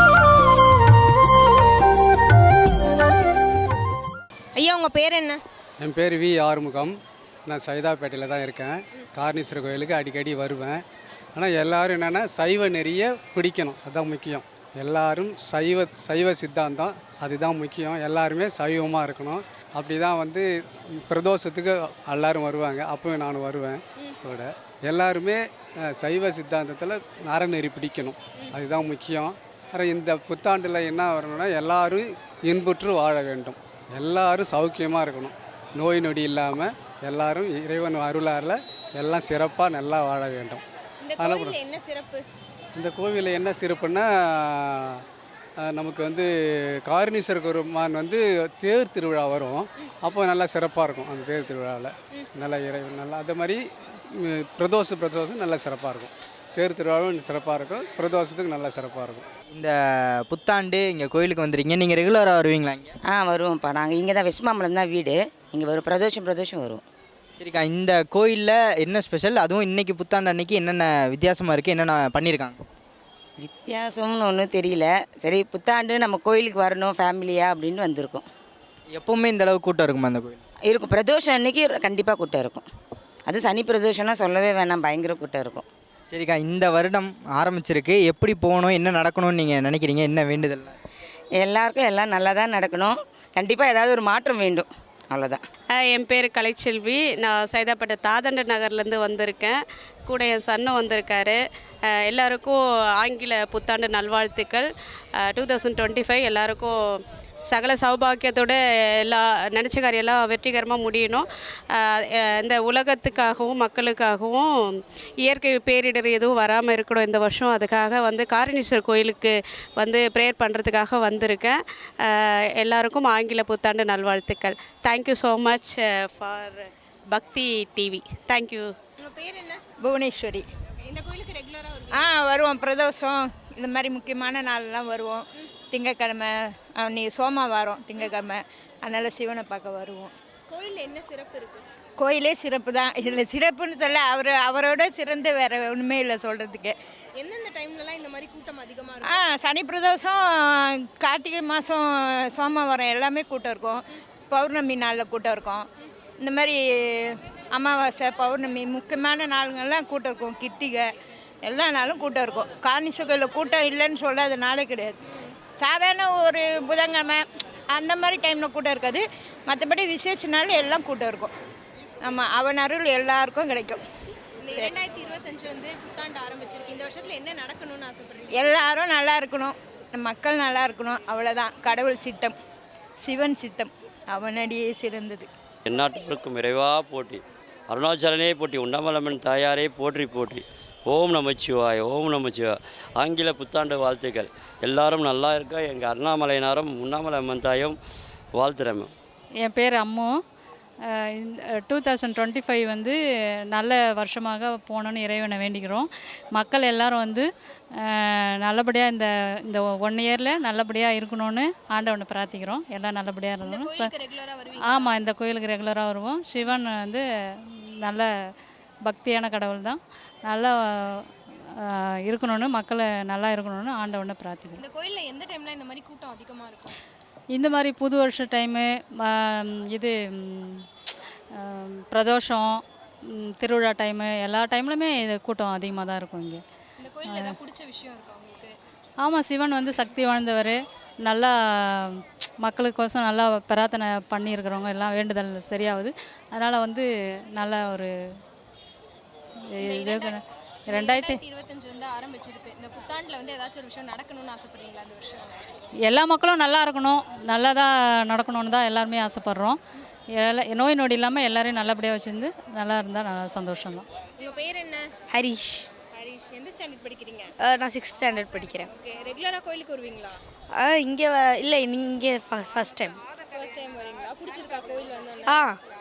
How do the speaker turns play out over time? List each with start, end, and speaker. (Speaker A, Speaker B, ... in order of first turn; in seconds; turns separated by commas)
Speaker A: 4.6-5.4, Speaker B: 5.8-7.0, Speaker B: 7.5-10.8, Speaker B: 11.3-20.4, Speaker B: 21.1-25.4, Speaker B: 25.9-40.6, Speaker A: 41.0-42.2, Speaker B: 41.2-41.6, Speaker B: 42.8-45.0, Speaker B: 45.6-46.3, Speaker B: 46.9-53.6, Speaker B: 54.4-59.2, Speaker C: 60.3-63.0, Speaker D: 63.0-66.8, Speaker C: 67.3-72.6, Speaker D: 73.4-78.2, Speaker C: 78.9-80.4, Speaker D: 80.7-82.7, Speaker D: 83.3-85.7, Speaker C: 86.1-90.8, Speaker D: 91.4-95.4, Speaker E: 95.8-99.6, Speaker E: 100.1-101.4, Speaker E: 102.1-104.7, Speaker E: 105.3-106.7, Speaker E: 107.5-108.5, Speaker E: 109.1-111.2, Speaker E: 112.4-114.5, Speaker E: 115.3-121.6, Speaker E: 122.6-128.7, Speaker A: 129.0-129.6, Speaker F: 129.8-130.4, Speaker A: 130.8-132.2, Speaker F: 132.0-140.1, Speaker A: 140.5-141.6, Speaker F: 142.0-146.8, Speaker A: 147.2-149.3, Speaker F: 149.1-155.7, Speaker F: 156.2-160.9, Speaker F: 161.4-165.0, Speaker F: 165.6-171.3, Speaker F: 172.0-173.8, Speaker A: 174.4-178.6, Speaker F: 178.3-182.4, Speaker F: 183.0-185.3, Speaker G: 185.7-197.8, Speaker G: 198.3-198.9, Speaker H: 199.4-200.2, Speaker H: 200.9-203.0, Speaker H: 203.5-213.9, Speaker A: 213.4-214.9, Speaker H: 214.7-217.0, Speaker H: 217.8-218.1, Speaker H: 218.8-221.1, Speaker H: 221.6-224.6, Speaker A: 224.6-226.8, Speaker H: 227.3-230.7, Speaker H: 231.3-236.4, Speaker A: 236.8-238.5, Speaker H: 237.1-237.3, Speaker H: 239.0-247.9, Speaker H: 249.6-250.2, Speaker A: 249.7-250.2, Speaker H: 250.7-251.2, Speaker A: 250.7-255.4, Speaker H: 255.9-259.6, Speaker H: 260.2-263.9, Speaker A: 264.2-264.8, Speaker I: 265.1-265.7, Speaker A: 266.0-267.3, Speaker I: 267.4-268.7, Speaker A: 268.7-270.2, Speaker I: 270.6-273.0, Speaker A: 273.3-275.4, Speaker I: 275.3-275.6